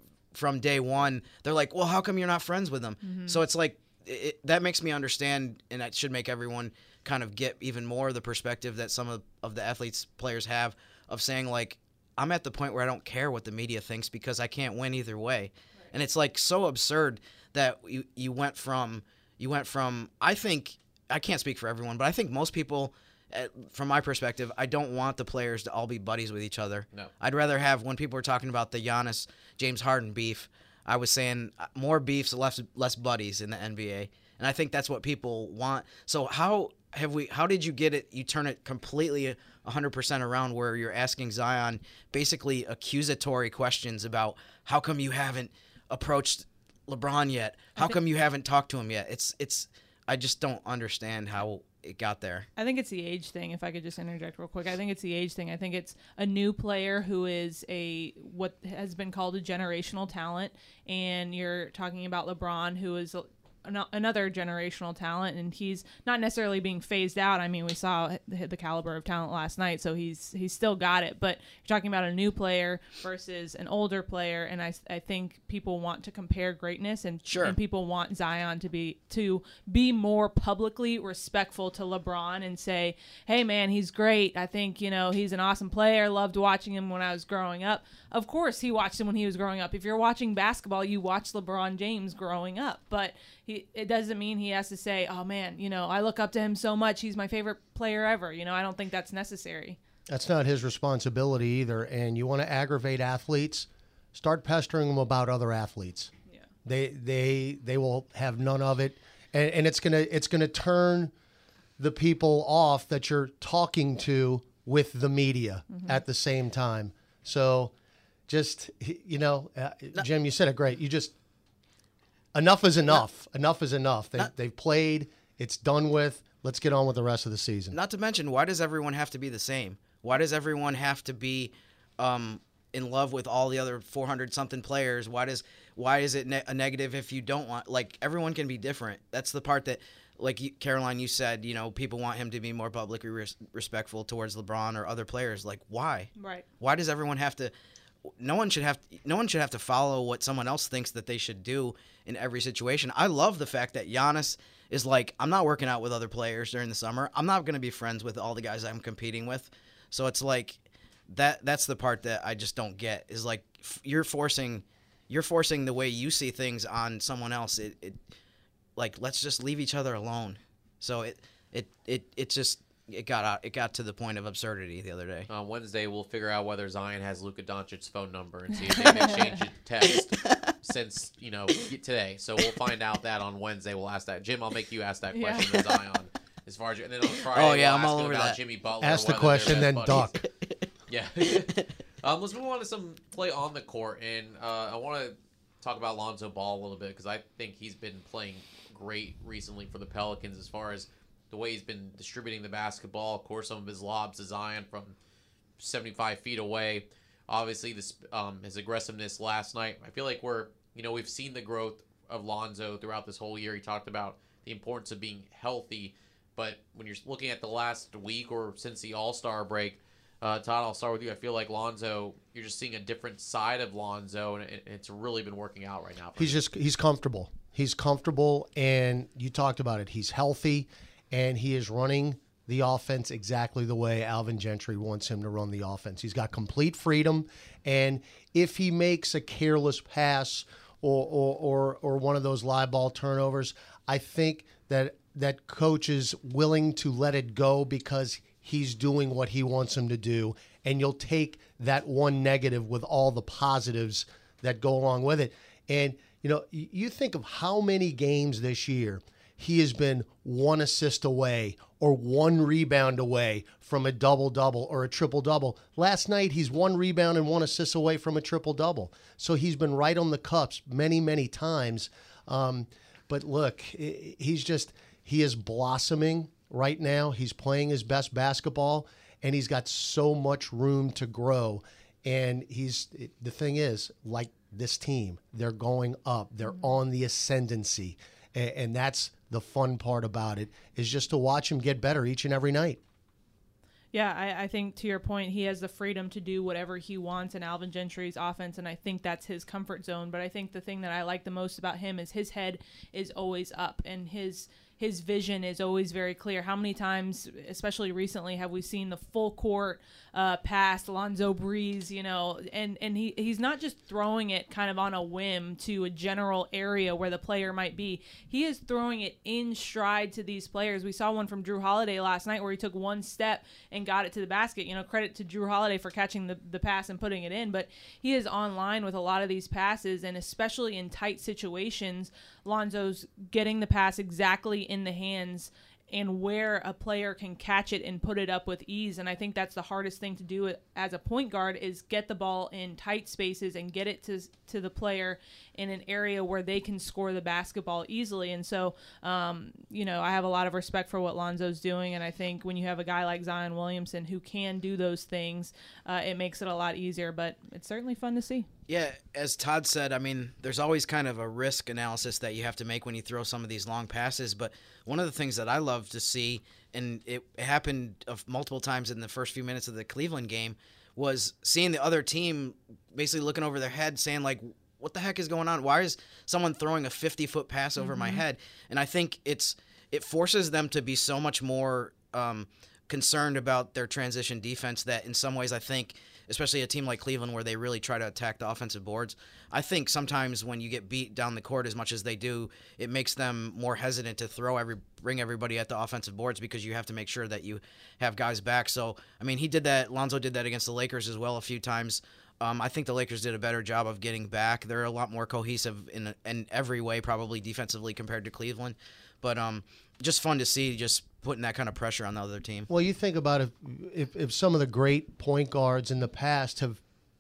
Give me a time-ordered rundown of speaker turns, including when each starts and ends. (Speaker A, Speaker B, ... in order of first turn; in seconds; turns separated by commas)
Speaker A: 0.3-52.5, Speaker B: 3.0-3.4, Speaker B: 52.5-99.8, Speaker A: 77.2-77.6, Speaker C: 100.1-106.1, Speaker C: 106.6-111.1, Speaker C: 111.8-117.7, Speaker B: 115.7-116.0, Speaker C: 118.3-121.1, Speaker C: 122.3-127.8, Speaker A: 127.7-147.5, Speaker B: 146.2-146.4, Speaker A: 148.2-168.0, Speaker A: 168.8-175.3, Speaker D: 175.3-190.2, Speaker B: 185.1-185.6, Speaker A: 187.3-188.4, Speaker C: 188.8-190.2, Speaker A: 190.2-190.5, Speaker D: 190.9-204.9, Speaker A: 191.2-191.6, Speaker D: 205.6-226.4, Speaker C: 226.2-292.8, Speaker B: 293.9-358.5, Speaker A: 358.7-412.7, Speaker B: 377.8-378.2, Speaker C: 412.7-416.8